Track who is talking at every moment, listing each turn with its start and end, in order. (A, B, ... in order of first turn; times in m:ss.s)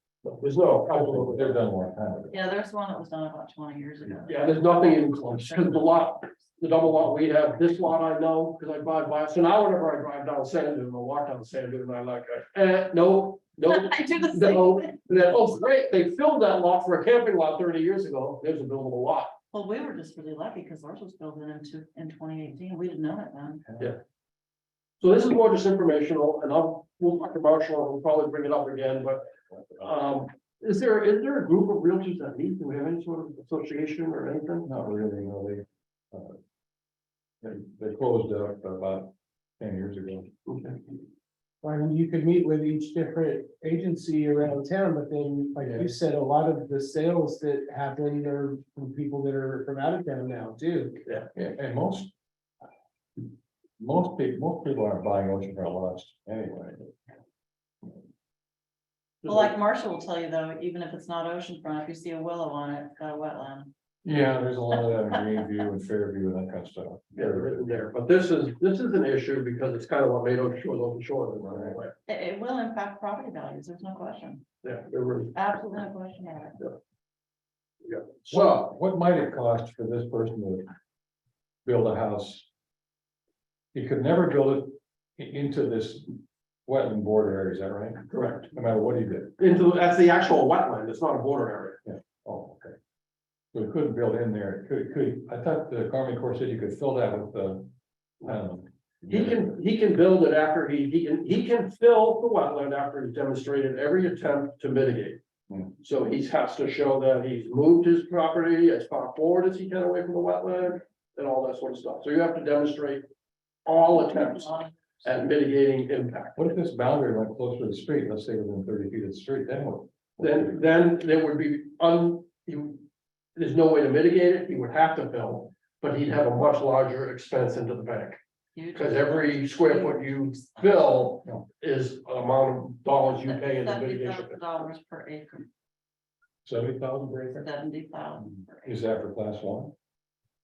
0:00.2-0:01.6 A
0:00.9-0:02.4 B
0:02.3-0:06.0 C
0:04.3-0:19.3 A
0:13.7-0:15.0 C
0:19.5-0:23.6 C
0:23.6-0:23.9 B
0:25.0-0:29.3 A
0:29.8-0:34.7 A
0:34.6-0:36.4 B
0:37.4-0:40.3 B
0:40.5-0:40.8 A
0:41.6-0:51.0 D
0:45.6-0:45.9 A
0:51.3-0:52.1 B
0:53.2-0:56.9 B
0:59.2-0:59.5 A
0:59.2-1:03.7 C
1:04.0-1:07.7 B
1:07.1-1:11.9 A
1:11.4-1:11.8 B
1:12.1-1:14.4 C
1:14.6-1:15.3 A
1:15.3-1:16.6 C
1:17.8-1:18.7 A
1:18.3-1:20.7 B
1:21.6-1:22.5 B
1:23.7-1:29.4 B
1:28.1-1:28.5 A
1:29.4-1:31.8 A
1:31.8-1:32.8 B
1:33.5-1:39.5 B
1:39.1-1:45.2 A
1:45.8-1:53.0 A
1:53.6-1:56.5 A
1:53.9-1:55.0 C
1:56.4-2:00.6 B
2:00.2-2:02.8 A
2:03.4-2:08.2 A
2:08.5-2:10.9 C
2:08.7-2:14.4 A
2:13.0-2:15.5 C
2:16.4-2:17.5 B
2:17.3-2:18.8 C
2:18.2-2:19.7 B